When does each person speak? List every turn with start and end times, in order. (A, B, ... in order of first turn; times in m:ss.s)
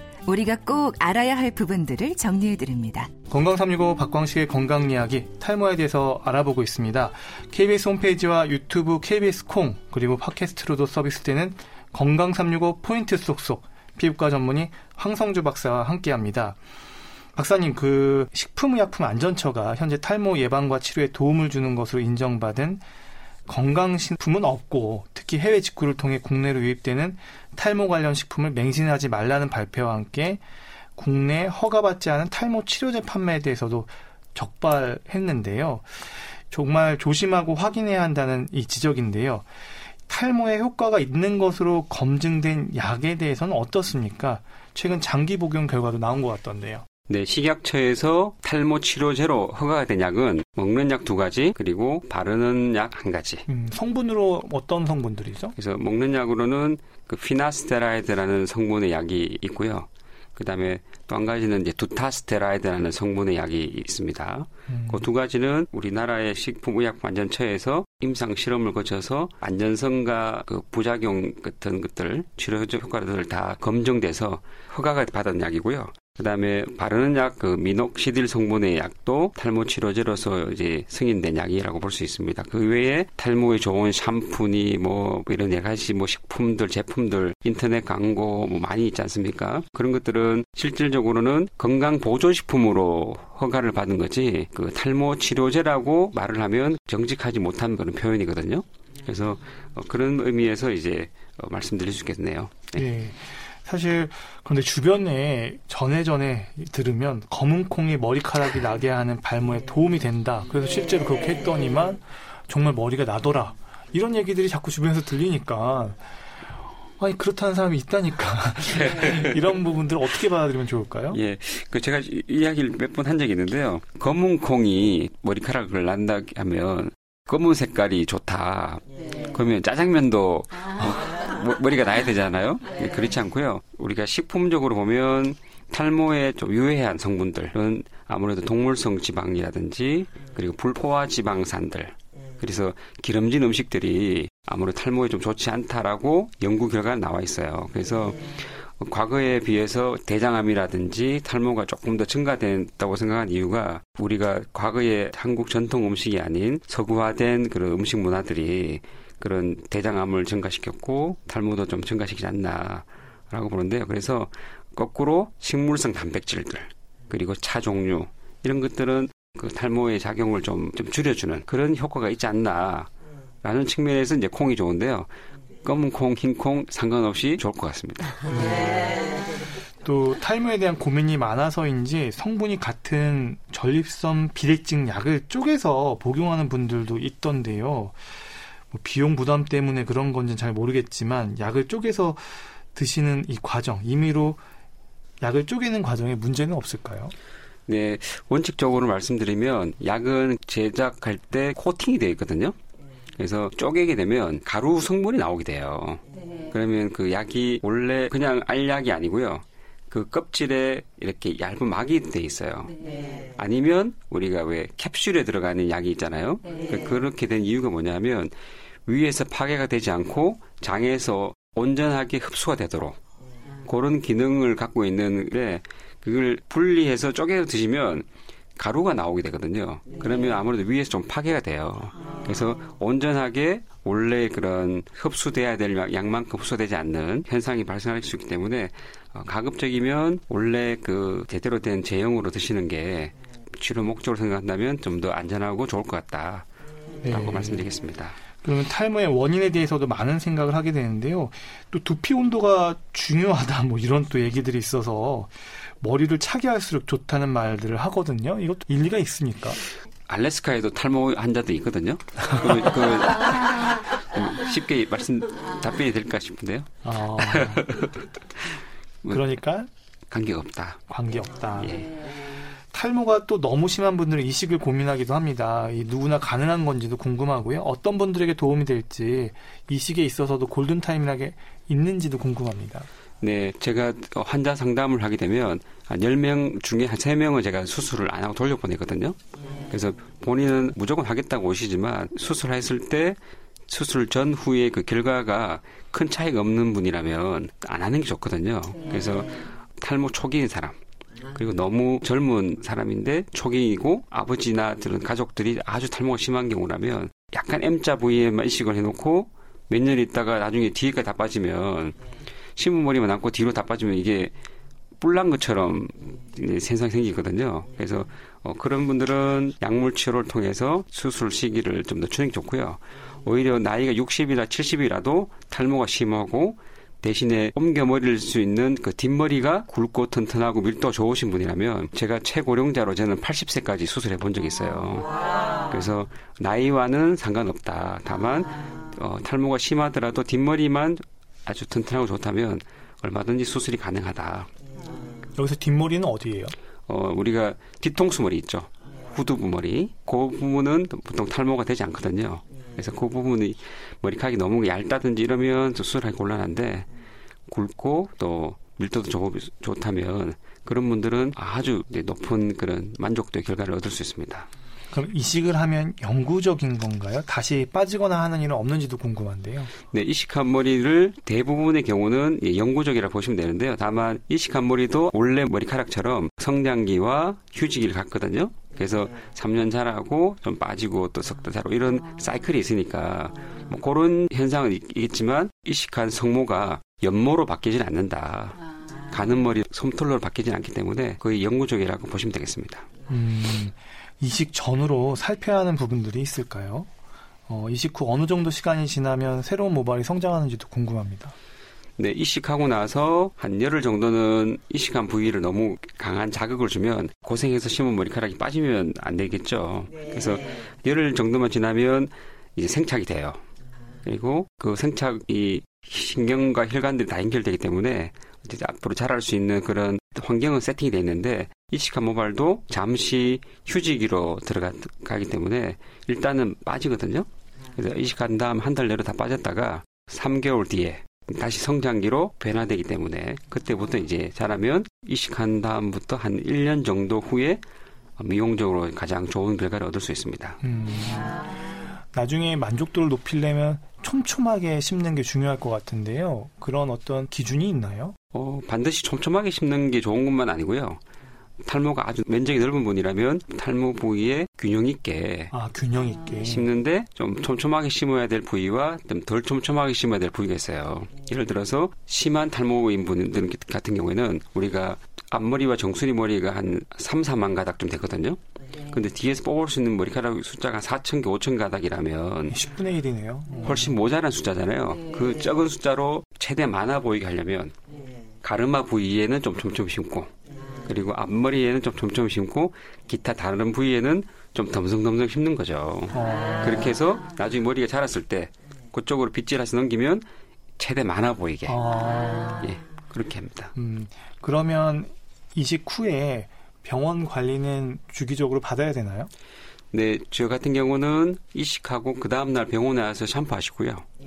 0:00.3-0:03.1 A
0:03.3-0:16.6 B
0:17.3-0:22.8 B
0:23.5-0:30.4 B
0:31.0-0:39.5 B
0:40.1-0:46.8 B
0:47.1-0:53.5 C
0:53.5-0:55.6 B
0:55.6-1:42.8 C
1:04.7-1:05.0 B
1:42.8-1:56.0 B
1:57.0-2:01.2 B
1:58.8-1:59.4 C
2:01.1-2:52.9 C
2:53.4-2:55.1 C
2:55.6-2:58.7 C
2:58.2-2:59.2 B
2:59.8-3:08.2 B
3:08.7-3:14.4 B
3:15.2-3:17.1 B
3:17.7-3:22.5 C
3:23.1-3:38.3 C
3:38.8-3:43.0 C
3:43.6-3:48.0 C
3:48.6-4:06.5 C
4:07.0-4:07.7 B
4:07.0-4:08.2 C
4:08.4-4:19.6 B
4:20.1-4:28.1 C
4:26.8-4:27.8 B
4:29.0-4:29.7 B
4:30.1-4:30.8 C
4:30.9-4:42.9 B
4:31.6-4:31.9 C
4:43.2-5:00.8 C
5:01.3-5:12.0 C
5:12.6-5:14.3 C
5:15.0-5:44.5 C
5:45.3-5:46.6 B
5:46.9-5:56.9 C
5:57.5-6:04.5 C
6:04.9-6:09.7 B
6:09.9-6:32.9 C
6:33.1-6:36.9 B
6:37.5-6:41.4 B
6:42.0-6:53.4 C
6:54.0-7:17.6 C
7:18.2-7:20.6 C
7:20.6-7:28.2 B
7:28.3-7:31.0 C
7:31.6-7:35.5 C
7:35.5-7:36.7 B
7:36.2-7:52.6 C
7:52.5-7:54.0 B
7:53.6-7:57.8 C
7:58.4-8:10.2 C
8:06.1-8:06.9 B
8:10.8-8:11.9 C
8:11.7-8:12.8 B
8:12.6-8:13.7 C
8:13.8-8:19.3 B
8:19.9-8:24.1 C